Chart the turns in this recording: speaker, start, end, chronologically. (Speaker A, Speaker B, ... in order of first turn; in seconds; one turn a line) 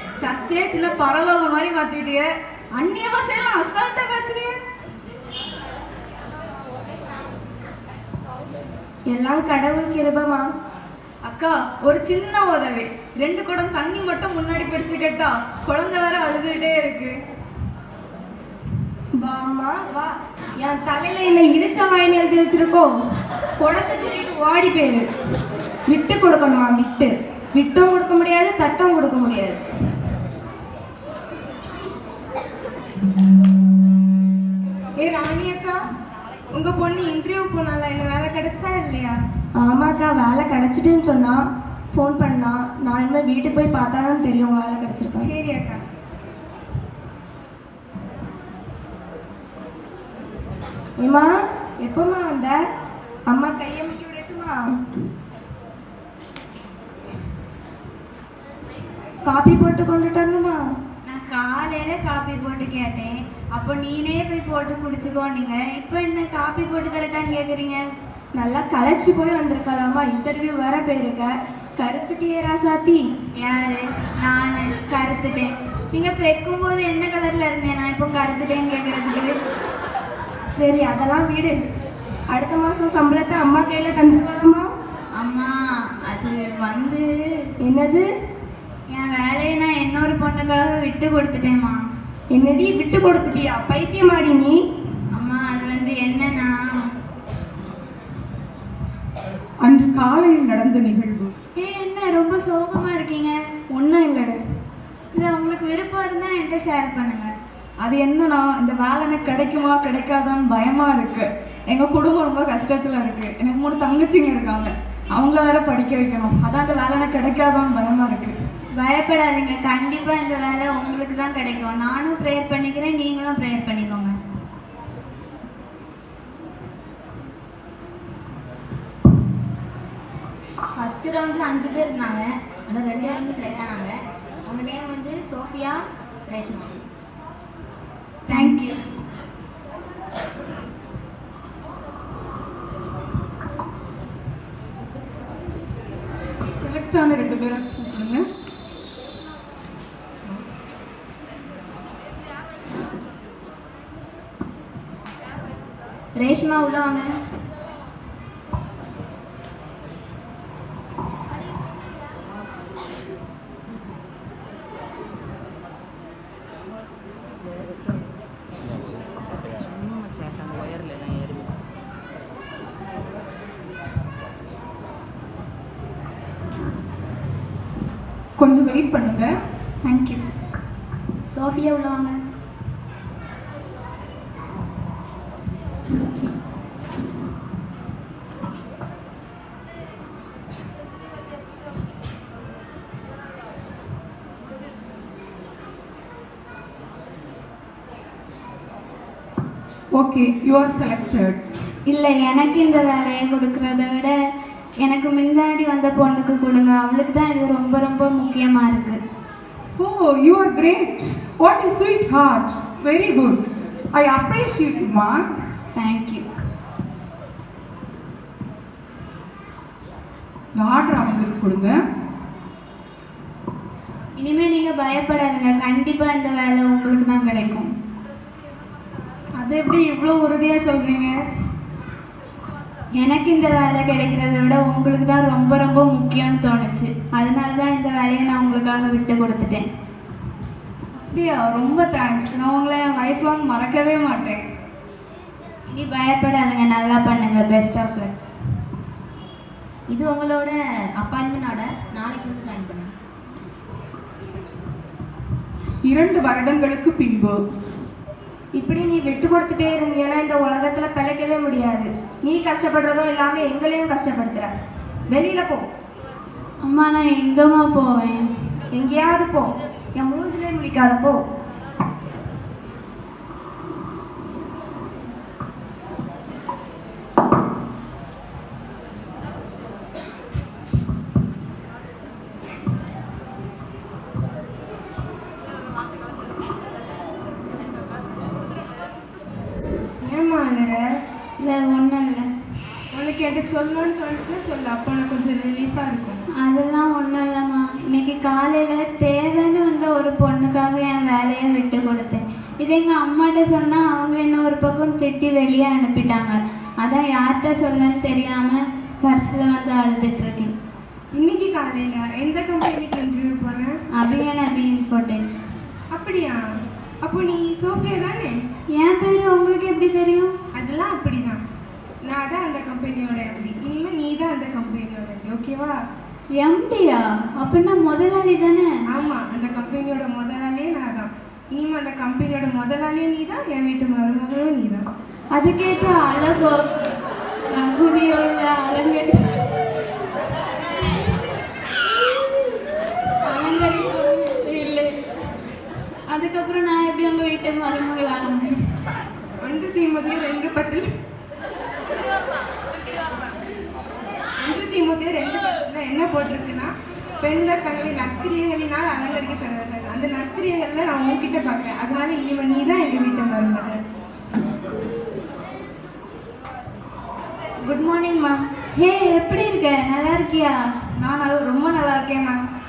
Speaker A: 0.2-2.2
Speaker A: 2.8-4.5
Speaker B: 9.1-10.4
Speaker A: 11.2-17.1
Speaker B: 19.2-20.1
Speaker B: 20.6-22.9
Speaker B: 23.6-25.0
Speaker B: 25.9-29.6
Speaker C: 35.0-35.8
Speaker C: 36.5-39.2
Speaker B: 39.6-41.4
Speaker B: 41.9-45.3
Speaker C: 45.3-45.8
Speaker B: 51.0-51.3
Speaker B: 51.8-52.5
Speaker B: 53.3-54.6
Speaker B: 59.3-60.6
Speaker D: 61.1-67.8
Speaker B: 68.4-71.3
Speaker B: 71.8-73.0
Speaker D: 73.4-79.3
Speaker B: 80.6-81.5
Speaker B: 82.3-84.7
Speaker D: 85.2-87.1
Speaker B: 87.6-88.0
Speaker D: 88.9-91.8
Speaker B: 92.3-94.5
Speaker D: 95.1-96.9
Speaker E: 99.6-101.3
Speaker D: 101.6-103.3
Speaker A: 103.7-104.4
Speaker D: 105.1-107.3
Speaker A: 107.8-118.3
Speaker D: 118.8-124.1
Speaker F: 130.7-136.8
Speaker D: 138.3-138.7
Speaker A: 138.3-138.6
Speaker E: 146.6-148.2
Speaker F: 156.2-157.1
Speaker E: 178.4-179.3
Speaker D: 179.8-180.2
Speaker F: 181.3-182.2
Speaker E: 199.9-201.4
Speaker D: 201.9-204.1
Speaker D: 204.8-209.0
Speaker E: 209.8-213.4
Speaker E: 213.9-215.2
Speaker D: 215.8-216.2
Speaker E: 220.6-221.7
Speaker D: 224.2-227.7
Speaker A: 229.4-231.2
Speaker D: 233.0-239.7
Speaker A: 241.0-244.4
Speaker D: 245.7-248.1
Speaker F: 249.9-252.9
Speaker E: 255.9-257.4
Speaker B: 258.6-264.5
Speaker B: 265.1-265.6
Speaker D: 266.6-268.2
Speaker B: 268.7-271.2
Speaker C: 290.0-290.8
Speaker D: 291.4-292.3
Speaker C: 292.9-296.2
Speaker D: 296.4-310.5
Speaker C: 311.1-313.8
Speaker D: 314.0-315.2
Speaker C: 315.9-316.4
Speaker C: 317.0-318.4
Speaker D: 318.7-320.3
Speaker C: 320.6-321.4
Speaker C: 322.0-325.8
Speaker D: 326.4-328.7
Speaker C: 328.9-334.9
Speaker D: 335.3-336.7
Speaker D: 337.5-339.4
Speaker D: 343.3-344.9
Speaker D: 346.1-348.5
Speaker C: 349.4-350.9
Speaker C: 354.4-363.8
Speaker A: 367.6-368.4
Speaker D: 368.8-370.6
Speaker A: 371.0-372.4